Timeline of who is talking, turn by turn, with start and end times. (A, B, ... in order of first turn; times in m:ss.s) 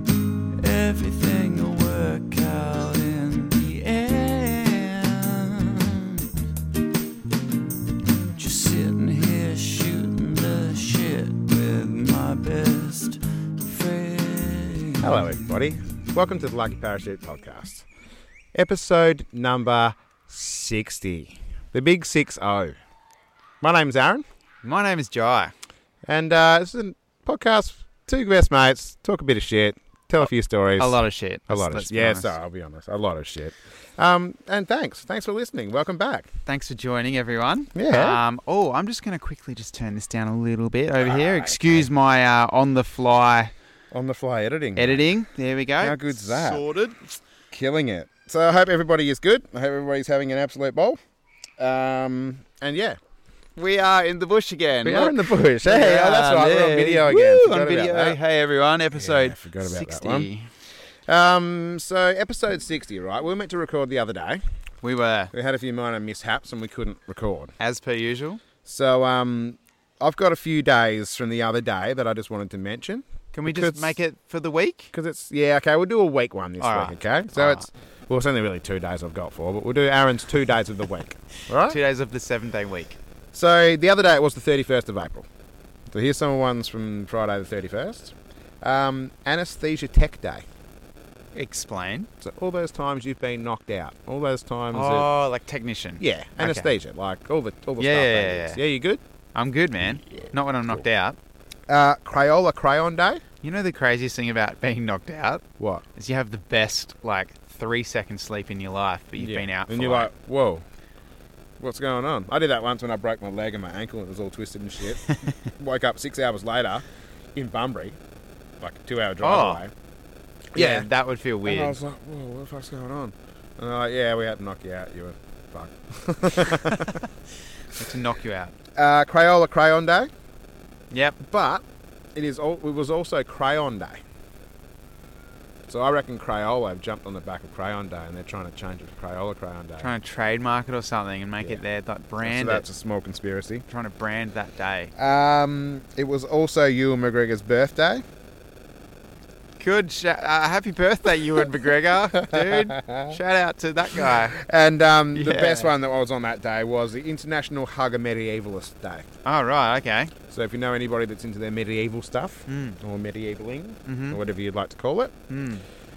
0:00.6-0:06.2 A
0:08.4-0:15.4 A
0:15.0-0:17.8 B
0:18.5-0:22.8 B
0:23.6-0:24.2 B
0:24.6-0:25.5 C
0:26.0-0:36.3 B
0:30.8-0:32.3 C
0:36.4-0:43.5 C
0:37.7-0:38.2 B
0:41.0-0:41.8 B
0:43.9-0:45.0 B
0:44.8-0:47.0 C
0:45.8-0:46.6 B
0:47.5-0:51.0 B
0:51.6-0:53.0 B
0:53.6-1:00.5 C
0:54.8-0:58.2 B
0:58.9-1:00.3 B
1:01.0-1:04.4 B
1:04.8-1:05.3 C
1:05.3-1:07.5 B
1:07.6-1:08.4 C
1:08.6-1:14.0 B
1:13.3-1:14.9 C
1:14.9-1:21.8 B
1:16.6-1:17.7 C
1:21.6-1:23.0 C
1:23.3-1:25.3 B
1:25.9-1:30.4 B
1:31.3-1:32.1 C
1:32.2-1:35.1 B
1:34.7-1:36.7 C
1:36.0-1:39.0 B
1:37.8-1:38.6 C
1:39.3-1:41.2 C
1:40.0-1:40.8 B
1:41.7-1:43.2 B
1:43.4-1:45.4 C
1:45.6-1:45.8 B
1:45.9-1:50.1 C
1:49.2-1:50.6 B
1:51.6-1:58.0 B
1:55.0-1:55.3 C
1:58.6-1:59.7 B
1:59.2-1:59.6 C
2:00.5-2:00.9 B
2:00.5-2:01.8 C
2:01.4-2:07.0 B
2:06.4-2:07.1 C
2:07.7-2:08.5 C
2:08.7-2:10.1 B
2:10.9-2:11.2 C
2:11.2-2:14.0 B
2:15.7-2:19.9 B
2:19.8-2:22.6 C
2:22.2-2:23.6 B
2:23.7-2:24.9 C
2:25.0-2:28.0 B
2:29.6-2:34.4 C
2:32.1-2:33.2 B
2:34.0-2:39.1 B
2:35.1-2:35.7 C
2:39.2-2:40.1 C
2:40.3-2:45.1 B
2:42.5-2:42.8 C
2:43.8-2:44.2 C
2:45.3-2:45.6 C